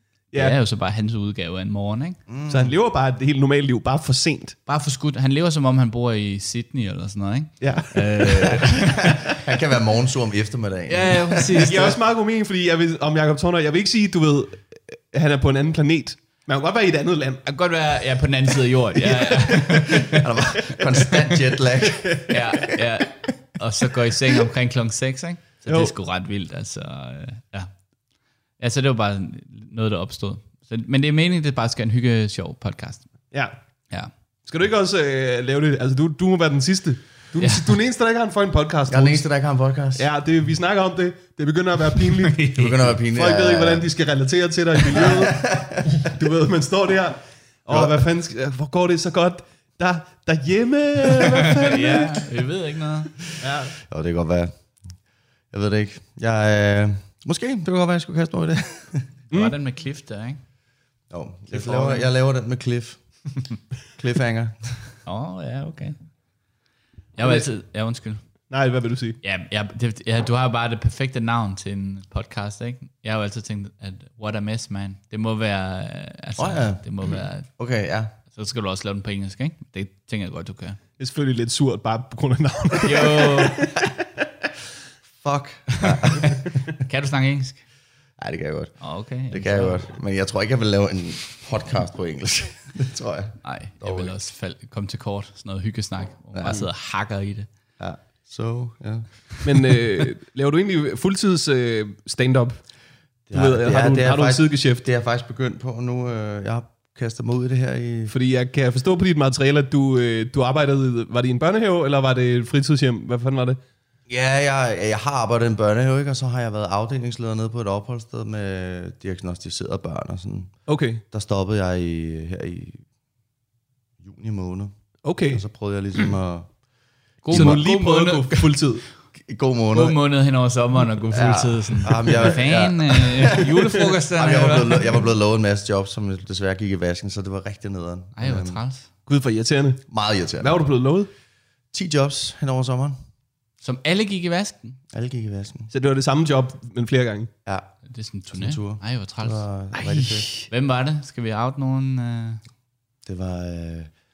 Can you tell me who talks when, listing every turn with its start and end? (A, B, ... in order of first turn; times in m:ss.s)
0:00.3-0:02.2 A
0:02.3-0:02.7 B
0:02.5-0:04.6 C
0:04.7-0:09.4 A
0:07.6-0:08.5 C
0:08.4-0:11.7 B
0:10.9-0:12.0 A
0:11.6-0:17.4 C
0:17.4-0:20.2 A
0:19.2-0:19.5 C
0:19.9-0:22.6 B
0:21.8-0:22.4 C
0:22.3-0:27.7 A
0:25.7-0:25.9 C
0:28.6-0:33.1 A
0:34.4-0:39.2 C
0:37.4-0:37.7 A
0:38.9-0:40.1 B
0:40.0-0:42.4 C
0:42.2-0:43.0 A
0:42.6-0:43.9 B
0:43.1-0:52.2 C
0:44.9-0:46.0 B
0:47.7-0:48.0 B
0:51.2-0:53.1 A
0:53.4-0:53.7 C
0:53.8-0:54.5 B
0:55.5-0:59.1 B
0:59.3-1:00.4 A
1:01.1-1:03.0 B
1:01.5-1:02.0 A
1:04.0-1:04.8 B
1:05.0-1:06.0 A
1:07.2-1:08.2 A
1:07.2-1:07.5 C
1:08.5-1:09.2 C
1:09.2-1:17.5 A
1:16.4-1:18.1 B
1:18.3-1:20.8 A
1:21.0-1:23.8 C
1:22.8-1:23.7 A
1:25.2-1:26.6 B
1:25.9-1:27.6 A
1:28.2-1:28.8 B
1:28.8-1:29.8 A
1:29.3-1:34.2 B
1:33.4-1:37.5 A
1:36.3-1:36.6 B
1:37.8-1:39.1 B
1:39.4-1:42.6 C
1:43.3-1:48.1 B
1:43.3-1:44.8 C
1:48.1-1:53.6 C
1:54.1-2:00.5 B
2:00.7-2:01.0 C
2:01.1-2:02.8 B
2:04.0-2:04.7 B
2:05.0-2:05.4 C
2:05.3-2:06.5 B
2:07.2-2:08.6 A
2:07.3-2:07.6 B
2:07.3-2:08.8 C
2:09.2-2:10.0 B
2:09.7-2:15.0 A
2:11.1-2:13.5 B
2:14.1-2:18.6 B
2:18.2-2:18.9 A
2:19.1-2:19.8 C
2:19.9-2:20.6 B
2:20.4-2:21.1 C
2:21.7-2:23.0 B
2:23.6-2:24.8 A
2:24.9-2:25.7 B
2:25.7-2:27.3 C
2:27.4-2:27.7 B
2:27.8-2:29.4 A
2:28.3-2:30.3 B
2:29.7-2:30.5 C
2:30.5-2:32.4 A
2:33.0-2:33.9 B